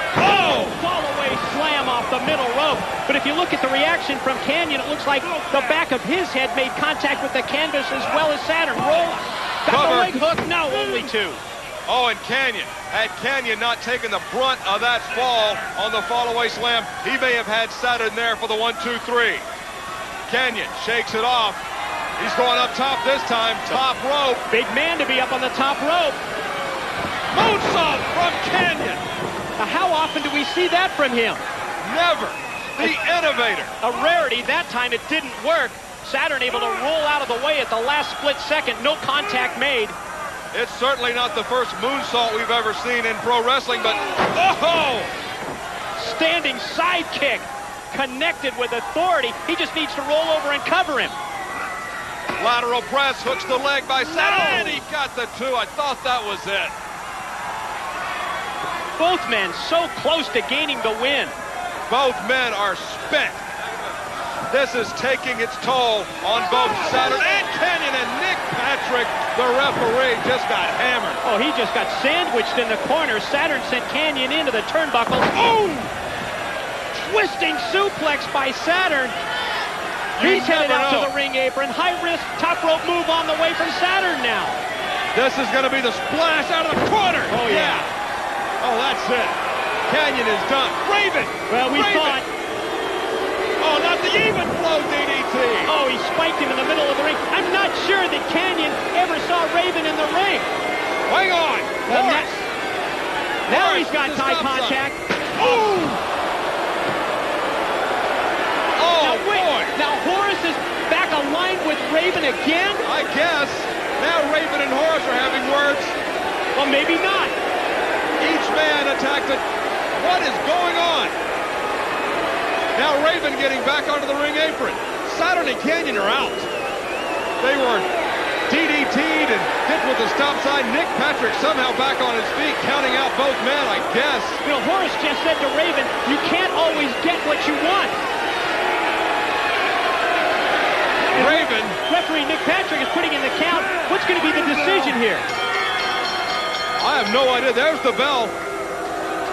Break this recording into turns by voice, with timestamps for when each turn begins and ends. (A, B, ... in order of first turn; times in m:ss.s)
0:00.2-0:11.4 A
0:09.7-0:10.2 B
0:11.9-0:19.4 B
0:20.3-0:21.6 B
0:22.2-0:24.4 B
0:24.5-0:26.2 A
0:27.3-0:29.0 B
0:29.6-0:31.4 A
0:31.8-0:33.7 B
0:33.8-0:40.0 A
0:40.5-0:45.1 B
0:46.0-0:51.1 A
0:52.4-0:56.7 B
0:59.0-1:01.3 A
1:01.9-1:03.4 B
1:04.5-1:11.2 B
1:11.2-1:15.4 A
1:15.4-1:15.9 B
1:16.9-1:19.2 A
1:20.2-1:21.1 B
1:20.2-1:24.6 A
1:25.1-1:27.9 B
1:27.3-1:27.9 A
1:28.6-1:32.2 B
1:31.5-1:32.2 A
1:33.6-1:35.7 B
1:35.6-1:40.5 A
1:41.1-1:42.5 B
1:41.9-1:42.3 A
1:43.4-1:44.8 B
1:43.5-1:45.4 A
1:45.4-1:46.0 B
1:48.8-1:49.8 B
1:49.0-1:52.8 A
1:52.8-1:56.0 B
1:56.5-1:57.3 A
1:58.2-1:59.4 B
1:59.9-2:01.1 B
2:02.7-2:06.5 B
2:07.4-2:07.8 B
2:08.5-2:14.4 B
2:14.4-2:17.9 A
2:21.1-2:21.8 B
2:21.1-2:25.2 A
2:26.8-2:28.3 B